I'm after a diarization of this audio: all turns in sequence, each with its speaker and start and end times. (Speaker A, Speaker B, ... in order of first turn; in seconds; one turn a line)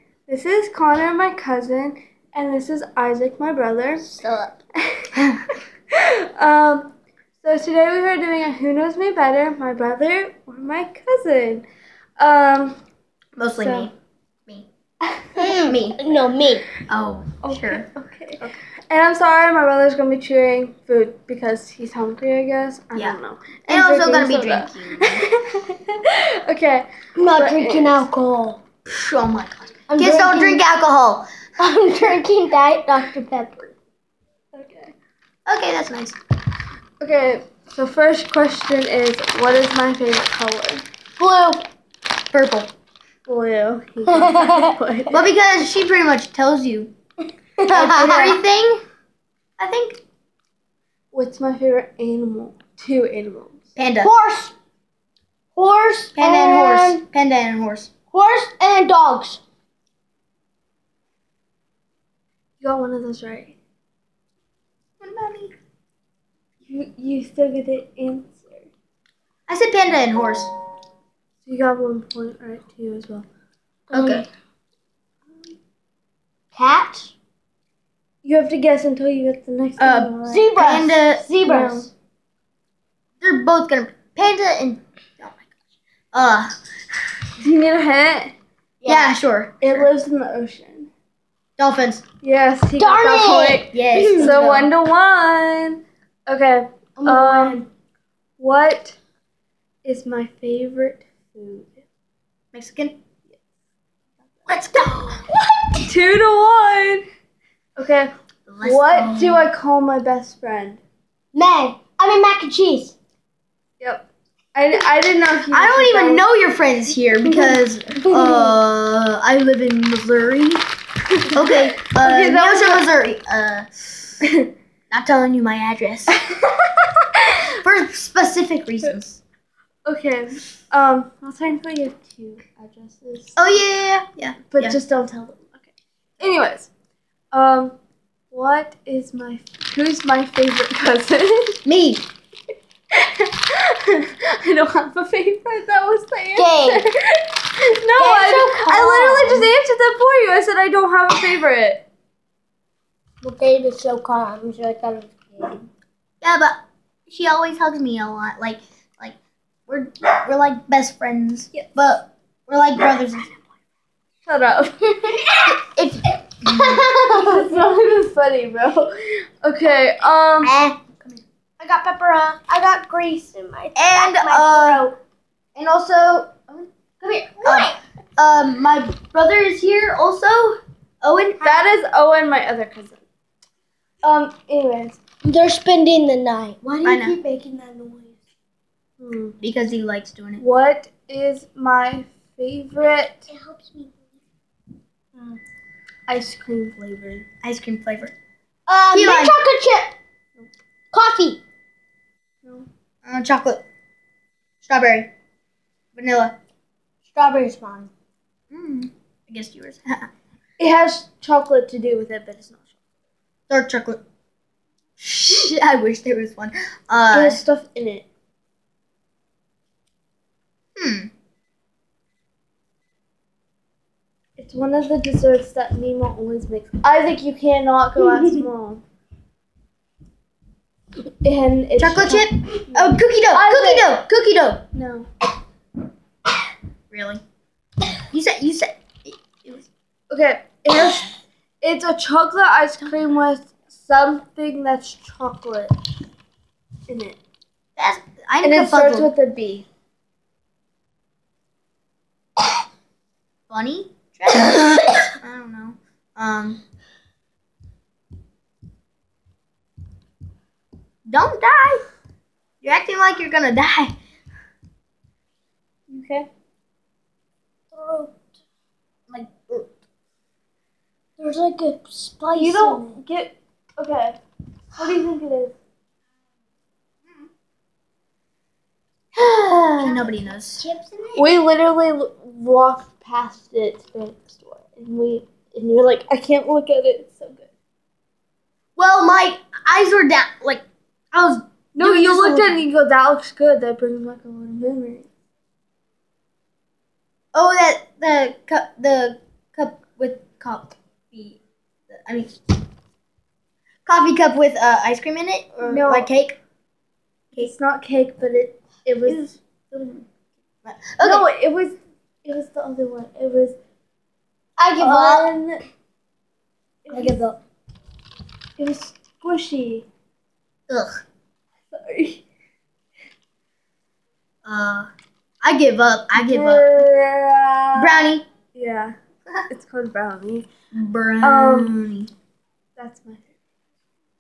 Speaker A: 0.3-4.1
Speaker B: 4.2-4.5
Speaker A: 4.9-5.3
Speaker A: 5.9-11.7
Speaker A: 12.2-12.8
Speaker C: 13.4-13.9
Speaker A: 13.6-13.9
Speaker C: 15.3-16.0
Speaker B: 15.4-16.6
Speaker C: 16.9-17.9
Speaker A: 17.4-28.1
Speaker C: 23.7-25.2
Speaker B: 27.1-28.6
Speaker C: 28.9-31.3
Speaker B: 29.9-30.6
Speaker B: 31.6-33.7
Speaker A: 34.5-34.9
Speaker C: 35.5-36.2
Speaker A: 37.0-40.8
Speaker B: 41.2-41.6
Speaker C: 42.3-42.7
Speaker A: 43.2-45.2
Speaker B: 44.1-44.7
Speaker C: 45.1-46.9
Speaker B: 47.6-48.4
Speaker C: 47.7-48.8
Speaker C: 49.6-50.0
Speaker A: 51.1-53.6
Speaker C: 53.8-54.1
Speaker B: 54.0-54.5
Speaker B: 55.5-57.0
Speaker C: 56.1-57.9
Speaker B: 58.1-59.4
Speaker A: 62.6-63.5
Speaker C: 65.0-65.5
Speaker A: 66.7-68.7
Speaker C: 69.5-70.5
Speaker A: 71.4-73.3
Speaker B: 73.9-74.3
Speaker C: 73.9-74.3
Speaker B: 76.5-77.1
Speaker A: 78.2-80.5
Speaker C: 79.8-81.3
Speaker B: 80.2-81.9
Speaker A: 81.4-81.9
Speaker C: 83.2-85.5
Speaker C: 86.1-86.5
Speaker A: 87.4-88.3
Speaker B: 88.8-89.1
Speaker C: 88.8-89.9
Speaker A: 89.6-90.9
Speaker C: 91.6-92.0
Speaker A: 92.2-97.6
Speaker B: 92.8-94.3
Speaker C: 93.7-94.7
Speaker B: 97.0-97.7
Speaker A: 98.4-99.0
Speaker A: 99.8-101.8
Speaker C: 102.5-103.0
Speaker C: 104.5-105.2
Speaker B: 104.5-105.8
Speaker A: 105.8-107.0
Speaker A: 107.8-108.1
Speaker C: 108.5-109.5
Speaker A: 108.6-110.8
Speaker B: 111.3-112.9
Speaker A: 113.8-116.2
Speaker C: 115.5-120.6
Speaker B: 117.2-118.6
Speaker C: 121.3-124.2
Speaker A: 121.3-122.9
Speaker A: 124.2-124.5
Speaker C: 124.9-126.2
Speaker A: 126.2-127.4
Speaker C: 127.6-129.2
Speaker A: 129.8-133.6
Speaker C: 133.4-134.8
Speaker A: 134.5-135.7
Speaker A: 136.2-136.7
Speaker A: 137.3-137.8
Speaker A: 138.3-141.6
Speaker C: 141.6-142.0
Speaker A: 142.9-151.8
Speaker C: 146.3-146.9
Speaker B: 147.9-149.5
Speaker B: 153.2-155.7
Speaker C: 156.2-159.2
Speaker C: 159.7-163.3
Speaker A: 164.2-164.9
Speaker B: 164.9-165.5
Speaker C: 165.5-166.8
Speaker B: 166.4-167.4
Speaker A: 167.1-170.7
Speaker B: 170.4-170.8
Speaker B: 171.6-175.0
Speaker C: 173.7-174.8
Speaker C: 175.6-176.7
Speaker B: 177.0-177.8
Speaker C: 177.4-181.4
Speaker A: 181.4-183.0
Speaker A: 184.0-185.0
Speaker B: 185.2-188.2
Speaker C: 186.8-187.2
Speaker A: 189.0-189.3
Speaker C: 189.4-190.4
Speaker A: 190.4-193.3
Speaker B: 193.3-194.0
Speaker B: 195.1-195.4
Speaker A: 196.1-197.3
Speaker C: 197.4-198.1
Speaker B: 198.7-199.9
Speaker C: 198.9-199.4
Speaker B: 200.9-201.4
Speaker C: 203.0-203.6
Speaker C: 204.6-205.1
Speaker C: 205.9-206.3
Speaker B: 207.1-207.9
Speaker C: 208.5-210.1
Speaker A: 210.6-212.7
Speaker C: 213.5-214.0
Speaker C: 215.0-217.4
Speaker A: 217.1-218.1
Speaker C: 220.8-221.1
Speaker A: 224.4-228.8
Speaker A: 231.2-233.8
Speaker C: 231.8-234.6
Speaker A: 234.7-235.1
Speaker C: 236.9-237.2
Speaker C: 238.1-239.7
Speaker A: 240.1-245.7
Speaker A: 246.9-247.2
Speaker C: 247.8-249.1
Speaker A: 248.4-249.7
Speaker C: 253.5-256.6
Speaker C: 261.1-261.8
Speaker C: 262.6-263.9
Speaker A: 265.9-266.3
Speaker B: 267.7-268.1
Speaker C: 269.1-269.7
Speaker B: 271.2-272.9
Speaker A: 272.4-274.2
Speaker A: 274.7-275.5
Speaker C: 279.1-280.6
Speaker B: 279.8-281.4
Speaker A: 281.1-287.5
Speaker C: 288.8-292.6
Speaker A: 291.7-295.1
Speaker C: 297.3-302.3
Speaker C: 303.9-306.4
Speaker A: 305.6-306.1
Speaker A: 307.3-309.4
Speaker C: 309.1-310.0
Speaker C: 310.6-311.3
Speaker A: 311.0-313.6
Speaker C: 314.6-315.3
Speaker A: 314.8-315.6
Speaker A: 316.8-317.4
Speaker C: 316.9-317.2
Speaker A: 318.6-319.9
Speaker C: 320.7-321.0
Speaker A: 321.7-322.2
Speaker C: 324.4-324.9
Speaker C: 325.4-326.8
Speaker A: 326.1-328.9
Speaker C: 327.8-328.2
Speaker A: 329.5-330.5
Speaker C: 330.7-332.1
Speaker A: 331.2-331.8
Speaker A: 332.8-333.2